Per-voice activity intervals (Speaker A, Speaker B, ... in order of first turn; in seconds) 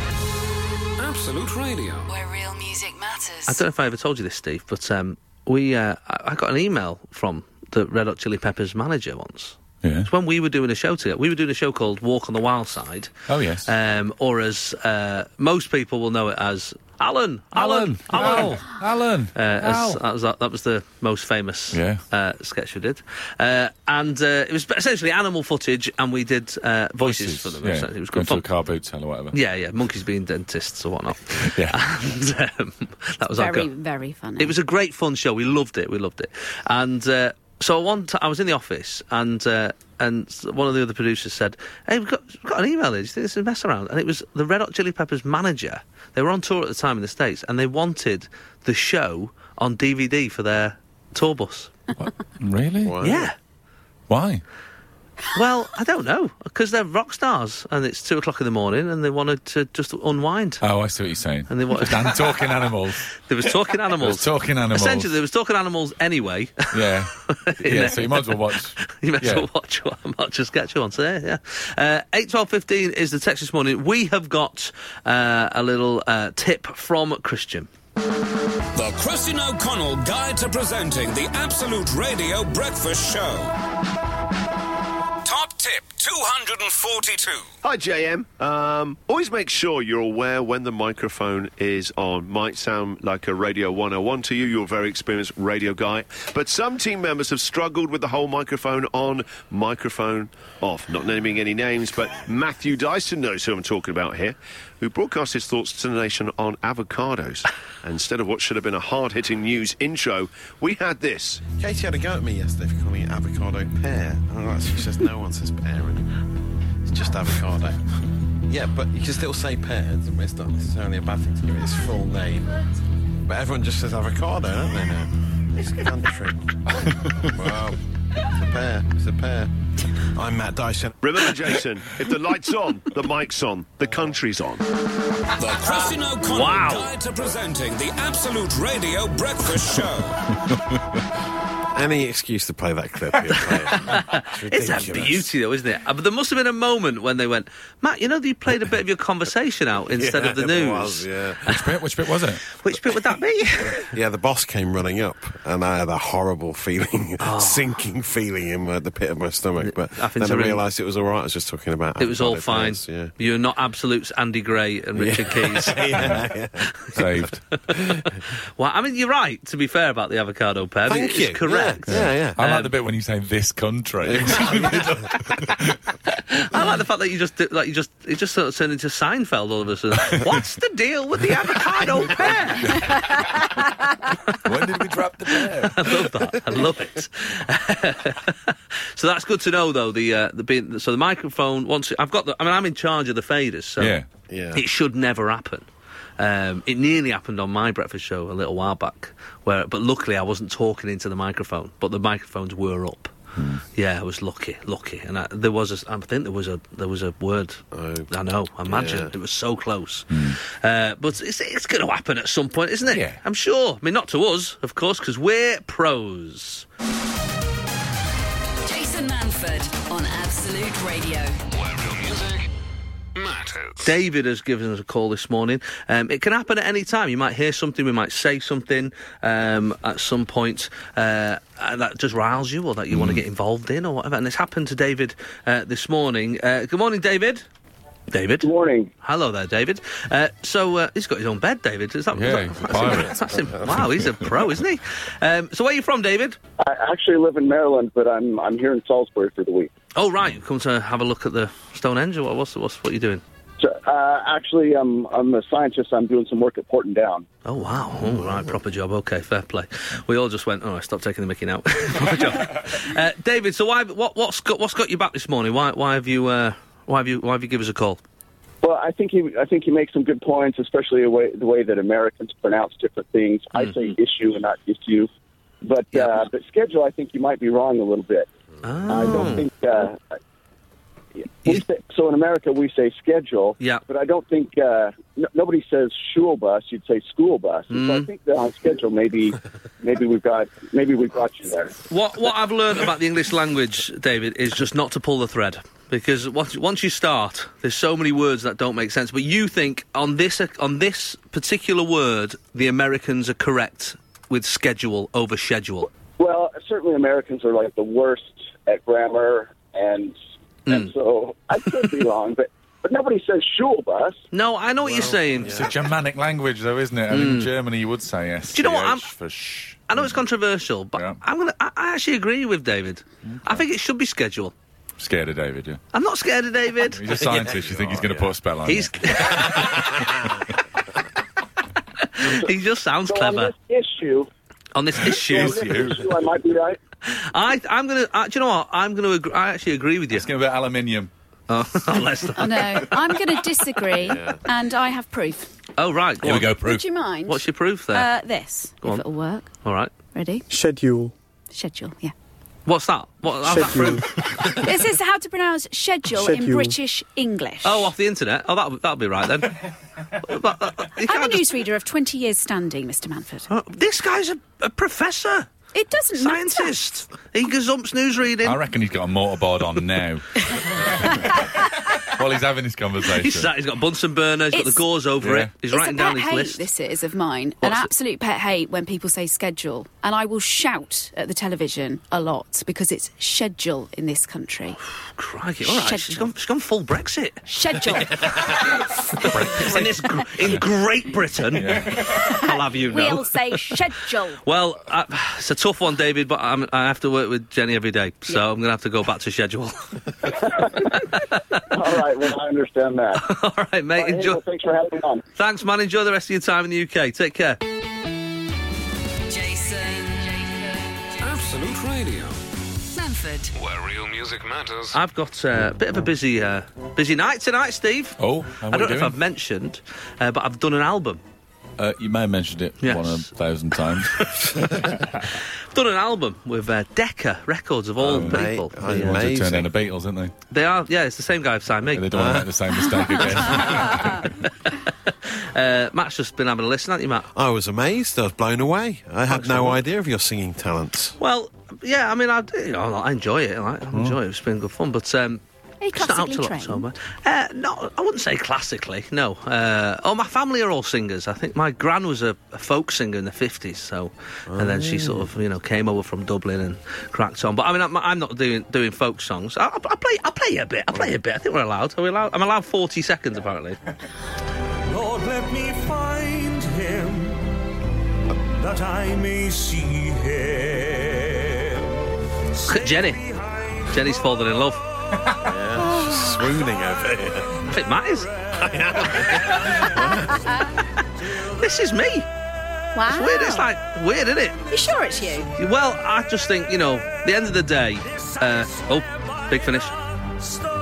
Speaker A: 1.0-2.1, 78.7-83.5, 85.2-87.5, 135.4-140.2, 221.5-222.5, 223.2-223.9, 411.2-412.4, 413.6-414.9, 468.8-470.8
Speaker B: 2.1-3.6, 218.6-221.4, 409.3-411.1, 412.9-413.5
Speaker C: 3.5-18.8, 19.3-28.4, 29.3-33.7, 34.4-51.7, 53.0-53.4, 55.3-60.6, 61.5-62.5, 63.2-77.7, 136.2-136.9, 143.6-151.8, 152.5-153.9, 157.2-157.7, 159.6-160.6, 162.0-166.2, 168.6-172.7, 176.3-183.0, 184.1-184.6, 185.3-194.0, 194.5-195.7, 196.2-203.2, 203.7-216.7, 223.8-237.4, 238.1-238.5, 239.0-246.4, 249.9-253.2, 257.4-268.0, 275.9-276.2, 278.6-279.5, 287.7-288.1, 291.9-305.9, 310.7-310.9, 314.3-315.6, 317.1-317.5, 318.5-319.1, 319.9-324.5, 325.9-327.2, 328.6-330.1, 332.0-333.5, 334.7-335.6, 337.1-340.3, 341.5-343.2, 345.8-346.7, 347.2-348.1, 349.6-349.9, 352.6-354.6, 357.6-361.6, 363.5-365.5, 366.1-368.6, 373.2-376.6, 377.6-377.9, 385.1-393.7, 394.4-401.6, 403.1-404.4, 405.4-407.6, 414.9-421.2, 422.8-423.3, 424.0-424.4, 425.3-429.2, 430.5-432.1, 434.6-437.3, 439.3-439.8, 441.2-445.4, 445.9-463.8, 472.7-473.2, 473.9-474.9, 477.6-479.9, 480.8-482.3, 483.1-484.6, 485.6-489.9
Speaker D: 9.8-10.1, 13.3-13.7, 17.5-20.0, 21.7-22.0, 27.0-29.4, 31.3-31.8, 52.0-52.9, 54.1-54.4, 60.6-63.1, 64.0-65.2, 66.7-69.5, 126.8-127.2, 140.5-140.8, 151.5-152.6, 166.9-167.4, 171.9-175.8, 184.4-186.3, 193.8-194.1, 203.4-203.6, 210.1-210.4, 212.9-213.2, 232.9-233.2, 242.1-244.2, 315.5-320.2, 320.9-321.2, 323.2-323.6, 325.0-325.8, 326.9-330.3, 335.1-336.1, 340.1-341.1, 346.2-346.8, 368.4-373.5, 375.2-375.6, 389.2-390.6, 391.5-392.2, 418.2-419.2, 421.8-424.2, 428.0-430.3, 431.9-434.3, 443.9-444.2
Speaker E: 33.3-34.6, 342.4-345.5, 346.6-349.5, 350.1-350.4, 351.5-352.1, 354.5-357.9, 361.0-363.5, 365.7-366.8, 374.5-374.9, 375.6-384.8, 385.6-386.3, 387.4-389.8, 392.1-394.4, 445.8-446.9, 475.8-476.4, 482.9-483.7, 484.7-485.5
Speaker F: 52.8-53.3, 111.5-116.1, 116.9-117.9, 118.5-122.6, 123.2-131.5, 141.7-145.3, 149.9-151.4, 153.7-163.1, 164.9-166.7, 167.8-168.1, 170.9-172.4, 174.0-174.9, 194.3-194.6, 207.7-208.1, 208.6-209.1, 258.1-258.5, 314.8-315.7, 327.3-328.3, 344.0-344.4, 428.1-429.7, 432.1-432.5, 437.3-441.2, 454.5-455.3, 475.4-477.6, 478.6-480.5
Speaker G: 87.6-111.5, 131.0-134.6
Speaker H: 238.4-238.9, 246.6-249.7, 253.6-257.2, 268.6-275.1, 275.6-278.3, 278.9-280.0, 281.3-291.7, 306.2-310.1, 310.7-314.2, 333.1-334.3, 335.2-336.8, 400.3-401.1, 401.7-403.2, 403.9-405.2
Speaker I: 350.5-351.1, 353.4-354.2, 356.1-356.8